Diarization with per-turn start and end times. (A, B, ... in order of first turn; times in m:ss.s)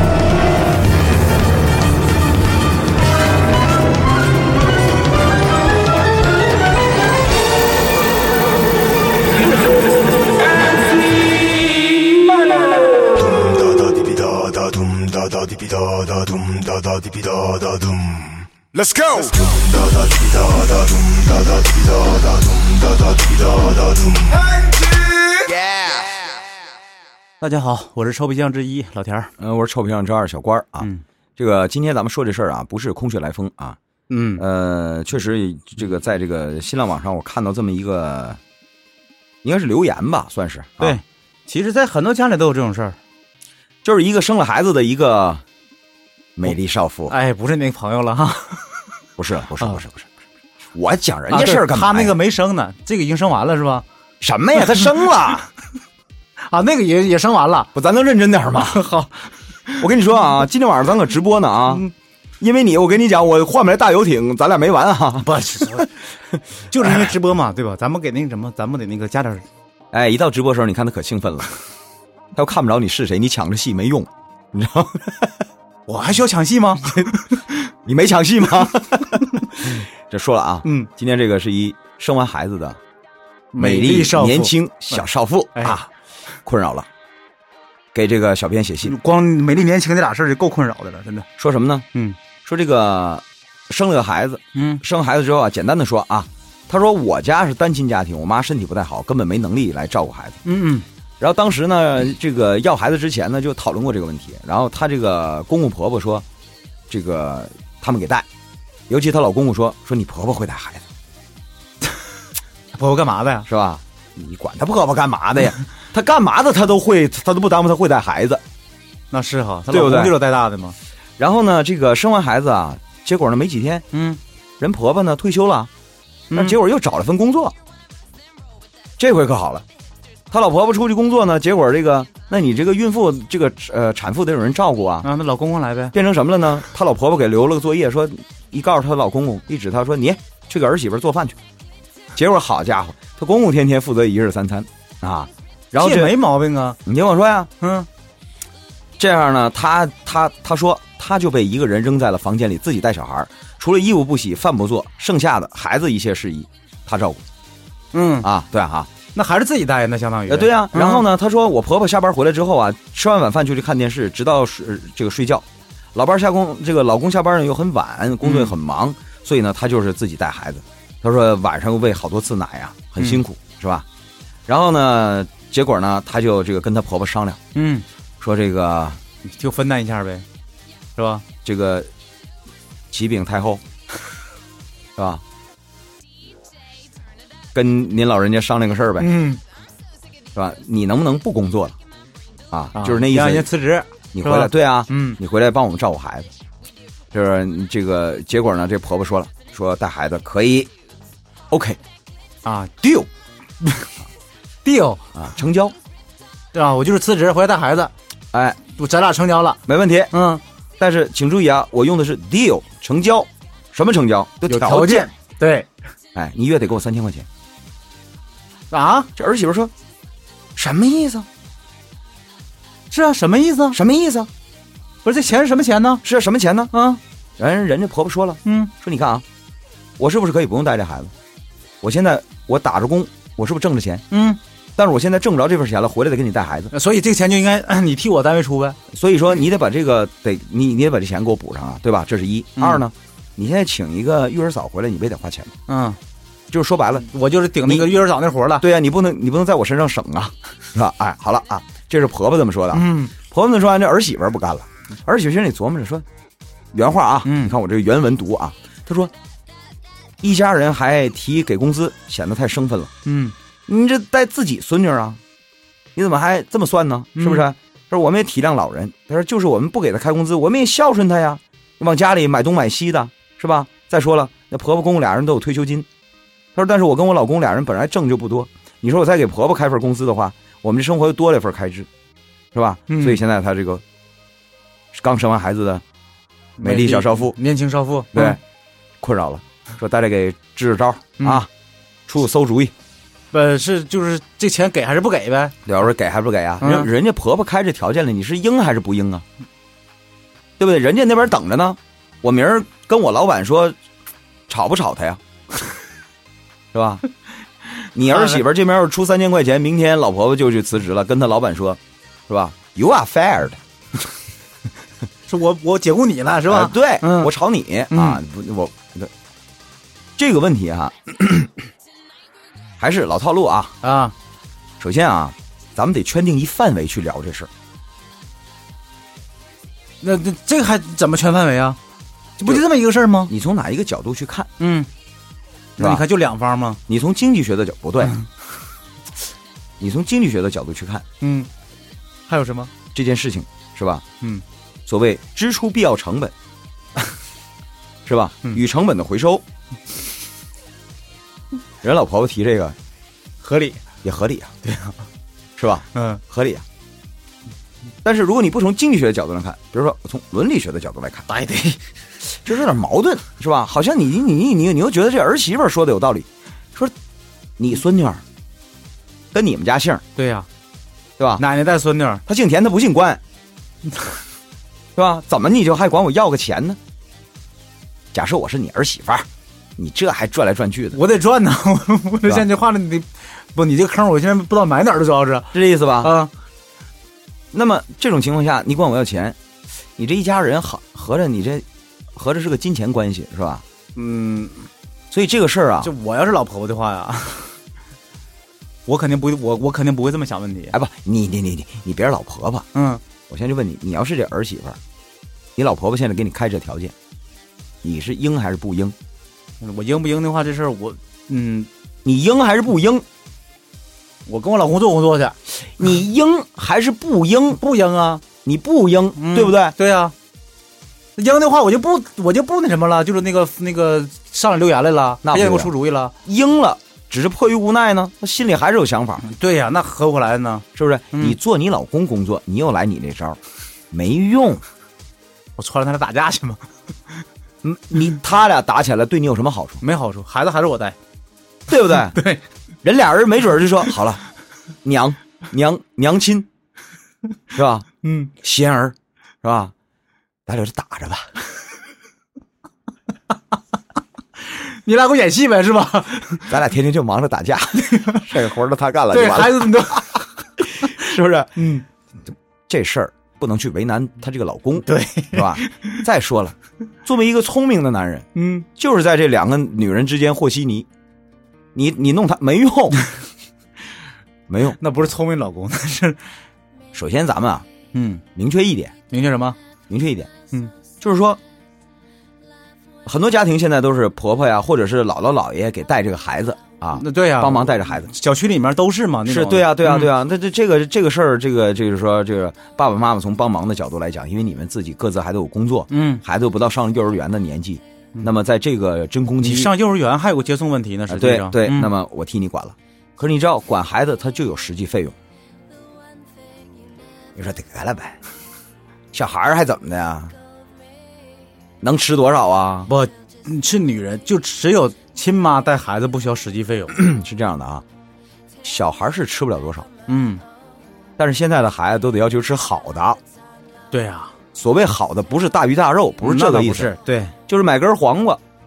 0:13.1-0:26.1 A
0:25.5-0:25.8 B
0:27.4-0:29.3 C
0:29.4-0:33.8 B
0:34.1-0:34.4 C
0:34.4-0:38.4 B
0:39.4-0:41.0 B
0:40.8-0:43.0 C
0:43.8-0:45.4 B
0:46.4-0:47.1 B
0:47.1-0:48.8 C
0:49.2-0:50.1 B
0:50.7-0:52.2 B
0:51.3-0:53.8 C
0:54.2-0:55.5 B
0:56.5-0:57.7 C
0:57.8-0:58.8 B
0:58.6-0:59.3 C
0:59.8-1:01.8 B
1:02.4-1:05.8 B
1:05.2-1:05.9 C
1:06.7-1:09.4 C
1:09.9-1:11.6 B
1:12.3-1:15.3 B
1:15.9-1:17.4 C
1:17.8-1:22.8 B
1:23.5-1:25.0 C
1:23.6-1:25.9 B
1:26.5-1:26.9 B
1:27.9-1:29.0 B
1:28.8-1:31.3 C
1:31.4-1:31.8 B
1:32.4-1:40.4 B
1:34.5-1:34.8 C
1:40.4-1:40.9 C
1:41.2-1:46.2 B
1:46.9-1:48.3 B
1:48.9-1:50.8 B
1:52.7-1:53.5 C
1:53.5-1:58.4 B
1:59.1-2:00.8 C
1:59.7-2:00.2 B
2:01.2-2:03.9 B
2:03.9-2:04.2 C
2:04.6-2:05.7 B
2:06.3-2:06.6 C
2:06.3-2:07.6 B
2:09.0-2:09.6 B
2:10.3-2:15.1 B
2:15.0-2:15.9 C
2:15.9-2:21.4 B
2:22.1-2:26.2 B
2:25.8-2:26.8 C
2:26.8-2:27.5 B
2:27.6-2:27.9 C
2:29.0-2:37.2 B
2:37.9-2:38.3 C
2:38.2-2:38.9 B
2:39.1-2:41.0 C
2:40.3-2:53.9 B
2:48.2-2:48.5 C
2:54.5-2:57.4 B
2:57.5-2:57.8 C
2:58.2-2:59.0 B
2:59.3-3:00.2 C
3:01.0-3:01.2 C
3:01.4-3:01.9 B
3:02.9-3:03.6 B
3:05.0-3:05.2 B
3:07.5-3:09.1 B
3:09.0-3:09.4 C
3:10.3-3:11.8 B
3:12.5-3:13.5 B
3:12.8-3:15.2 C
3:14.1-3:16.3 B
3:17.1-3:20.7 B
3:21.5-3:21.8 B
3:22.4-3:23.1 C
3:23.6-3:23.9 C
3:24.6-3:25.0 C
3:25.2-3:25.8 B
3:26.5-3:27.9 C
3:28.3-3:28.6 B
3:28.7-3:29.6 C
3:29.7-3:30.1 B
3:30.1-3:30.4 C
3:30.8-3:35.1 B
3:34.5-3:35.7 C
3:36.2-3:37.3 B
3:38.7-3:39.1 C
3:39.2-3:39.7 B
3:40.6-3:41.3 B
3:42.9-3:43.8 C
3:43.7-3:44.3 B
3:45.0-3:46.0 C
3:46.0-3:46.7 B
3:46.7-3:47.0 C
3:47.4-3:49.2 B
3:48.4-3:48.7 C
3:50.0-3:51.1 B
3:51.8-3:54.0 B
3:54.1-3:54.4 C
3:54.8-3:56.7 B
3:56.7-3:58.8 C
3:58.9-4:05.5 B
4:02.6-4:02.8 C
4:05.7-4:06.0 C
4:06.5-4:07.1 B
4:07.0-4:08.6 C
4:07.6-4:08.0 B
4:08.6-4:16.0 B
4:12.7-4:13.1 C
4:16.7-4:19.1 B
4:17.2-4:17.5 C
4:20.2-4:22.9 B
4:23.0-4:23.3 C
4:23.7-4:25.2 B
4:26.0-4:35.9 B
4:27.2-4:27.5 C
4:36.6-4:41.9 B
4:42.5-4:43.8 B
4:42.9-4:43.2 C
4:44.9-4:45.8 B
4:46.6-4:48.4 C
4:46.6-4:47.4 B
4:48.1-4:48.4 B
4:49.0-4:51.5 B
4:51.2-4:51.4 C
4:52.1-4:52.7 B
4:53.3-4:55.6 C
4:55.7-4:59.2 B
4:56.6-4:56.9 C
5:00.6-5:03.8 B
5:04.5-5:05.2 B
5:06.7-5:07.0 B
5:07.9-5:13.6 B
5:15.3-5:17.3 C
5:16.5-5:19.1 B
5:17.9-5:18.2 C
5:20.2-5:21.6 B
5:22.8-5:23.8 B
5:23.8-5:24.1 C
5:24.8-5:27.5 B
5:30.0-5:31.8 C
5:32.4-5:33.3 C
5:33.3-5:34.5 B
5:34.6-5:34.9 C
5:35.8-5:36.1 B
5:35.8-5:36.8 C
5:36.9-5:38.2 B
5:39.8-5:41.0 B
5:41.2-5:41.5 C
5:42.3-5:42.7 C
5:42.9-5:44.0 B
5:44.9-5:46.3 B
5:48.1-5:49.4 B
5:51.8-5:52.8 B
5:53.4-5:53.8 C
5:54.0-5:54.6 B
5:54.6-5:55.0 C
5:55.6-5:56.6 B
5:55.9-5:56.2 C
5:58.0-6:01.3 B
6:01.3-6:01.8 C
6:02.4-6:07.0 B
6:07.6-6:08.2 B
6:09.3-6:10.0 B
6:10.2-6:10.5 C
6:11.2-6:11.4 B
6:11.4-6:12.2 C
6:12.3-6:13.2 B
6:15.0-6:16.8 B
6:18.1-6:21.0 B
6:20.9-6:26.3 C
6:25.5-6:26.1 B
6:27.5-6:29.4 B
6:30.0-6:33.6 B
6:34.0-6:34.7 C
6:35.1-6:35.9 B
6:35.8-6:37.6 C
6:38.9-6:40.8 C
6:40.7-6:42.7 B
6:42.7-6:43.0 C
6:43.3-6:44.8 B
6:45.6-6:46.9 B
6:47.8-6:49.0 B
6:49.6-6:51.7 C
6:52.0-6:53.1 B
6:54.3-6:55.4 C
6:55.6-6:57.6 B
6:57.6-6:58.2 C
6:58.4-6:59.8 B
6:59.2-7:00.1 C
7:01.2-7:06.1 C
7:05.2-7:05.7 B
7:06.2-7:09.2 B
7:09.2-7:11.4 C
7:10.8-7:13.4 B
7:13.9-7:14.6 B
7:15.6-7:16.6 C
7:17.6-7:19.8 B
7:19.8-7:21.0 C
7:21.7-7:22.2 B
7:21.9-7:22.4 C
7:22.8-7:24.2 B
7:24.8-7:26.5 B
7:27.5-7:29.7 B
7:28.0-7:28.3 C
7:30.5-7:31.3 B
7:34.5-7:36.5 C
7:36.5-7:40.0 B
7:37.8-7:38.2 C
7:39.1-7:40.3 C
7:40.6-7:41.7 B
7:41.6-7:41.8 C
7:42.7-7:50.9 B
7:44.8-7:46.0 C
7:48.4-7:48.7 C
7:51.8-7:53.0 B
7:54.5-7:54.8 B
7:54.8-7:56.2 C
7:56.9-7:57.7 B
7:57.9-7:58.2 C
7:58.4-7:59.0 B
7:59.1-7:59.6 C
7:59.9-8:00.3 B
8:01.0-8:01.4 B
8:03.0-8:08.1 B
8:07.0-8:10.1 C
8:09.3-8:19.7 B
8:15.9-8:16.2 C
8:19.4-8:21.9 C
8:21.1-8:25.2 B
8:27.4-8:28.2 B
8:29.1-8:30.4 B
8:31.8-8:32.9 B
8:32.9-8:37.0 C
8:36.9-8:37.8 B
8:38.6-8:39.9 B
8:40.1-8:40.4 C
8:41.2-8:43.2 B
8:43.9-8:44.3 C
8:44.6-8:47.0 B
8:46.2-8:47.4 C
8:47.5-8:48.4 B